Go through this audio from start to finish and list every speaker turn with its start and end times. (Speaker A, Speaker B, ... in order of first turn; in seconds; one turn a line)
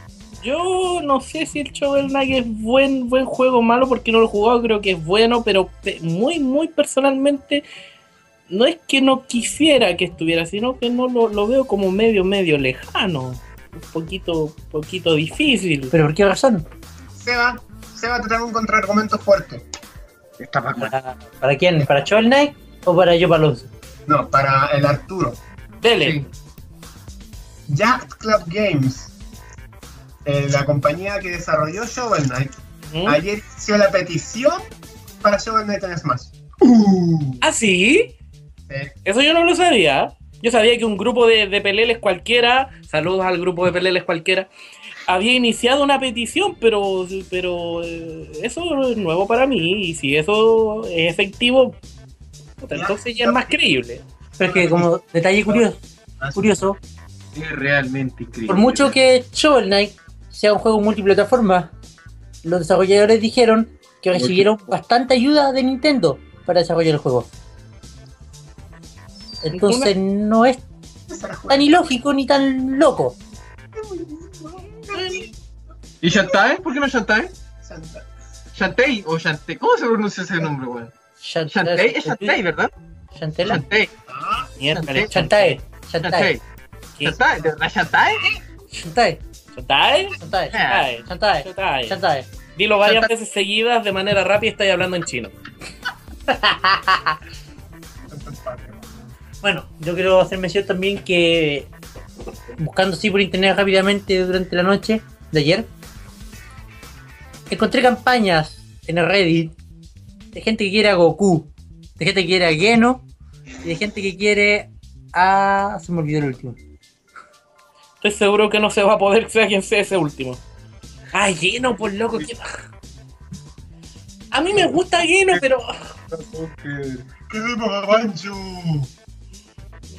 Speaker A: 0.4-7.6
Speaker A: 8.5-15.9
Speaker B: 15.9-16.7
Speaker C: 17.1-19.6
Speaker D: 20.4-20.9
Speaker B: 20.8-23.7
Speaker C: 24.1-25.4
Speaker A: 25.8-26.3
Speaker D: 26.0-26.3
Speaker C: 27.7-29.1
Speaker C: 30.2-34.7
Speaker A: 32.9-33.2
Speaker C: 35.2-37.4
Speaker A: 37.4-38.1
Speaker C: 38.7-38.9
Speaker A: 39.0-44.5
Speaker A: 45.1-51.8
Speaker A: 52.6-54.0
Speaker C: 52.7-53.5
Speaker B: 54.4-55.8
Speaker C: 54.4-54.9
Speaker C: 56.2-56.5
Speaker B: 56.3-56.8
Speaker D: 57.3-58.9
Speaker B: 58.5-61.7
Speaker B: 62.4-67.3
Speaker D: 64.1-64.5
Speaker B: 69.4-70.6
Speaker A: 69.5-69.9
Speaker C: 71.1-71.8
Speaker B: 71.5-73.2
Speaker C: 73.8-75.3
Speaker A: 74.9-75.3
Speaker D: 76.0-77.3
Speaker C: 77.6-78.0
Speaker D: 78.5-80.9
Speaker B: 81.2-82.4
Speaker D: 81.5-82.7
Speaker B: 83.1-83.6
Speaker D: 83.4-83.9
Speaker C: 83.5-84.5
Speaker A: 84.6-85.6
Speaker D: 84.7-85.1
Speaker B: 85.1-86.3
Speaker D: 86.0-86.4
Speaker D: 87.0-88.3
Speaker B: 88.7-89.2
Speaker A: 89.5-92.0
Speaker B: 90.2-92.3
Speaker D: 90.5-90.9
Speaker A: 92.5-95.3
Speaker D: 92.8-93.1
Speaker B: 96.3-97.2
Speaker C: 98.1-99.0
Speaker B: 99.4-101.7
Speaker B: 102.6-105.7
Speaker B: 107.5-109.5
Speaker B: 110.3-113.0
Speaker B: 113.6-116.6
Speaker A: 118.0-120.4
Speaker A: 121.1-122.5
Speaker A: 124.3-125.9
Speaker D: 126.1-127.1
Speaker C: 127.2-128.9